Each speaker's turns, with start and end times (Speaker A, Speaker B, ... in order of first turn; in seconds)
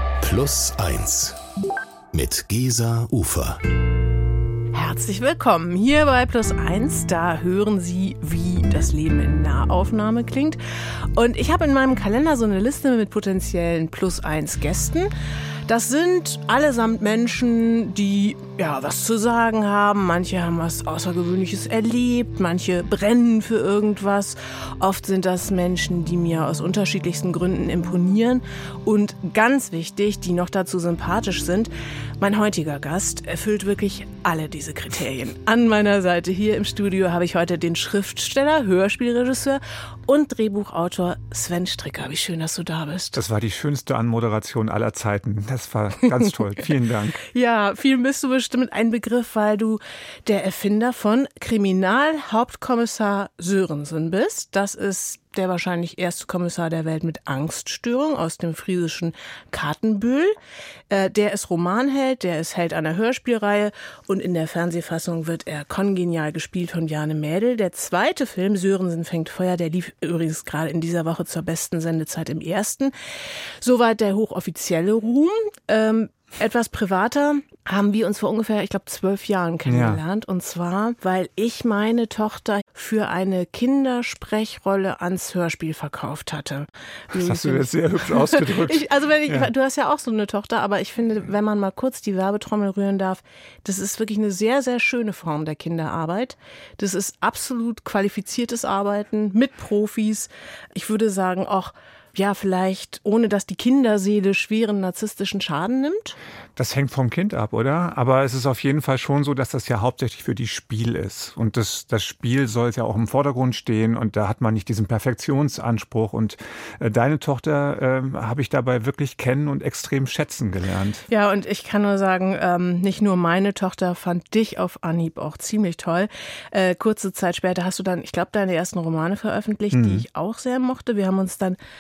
Speaker A: 0.2-1.4, 2.1-3.6
Speaker B: 4.7-10.6, 11.2-15.1, 15.7-43.2, 47.3-60.4, 60.9-72.9, 73.6-106.2, 121.1-131.6
Speaker C: 43.1-47.2, 79.7-80.0, 87.1-89.5, 106.6-121.0, 129.7-130.1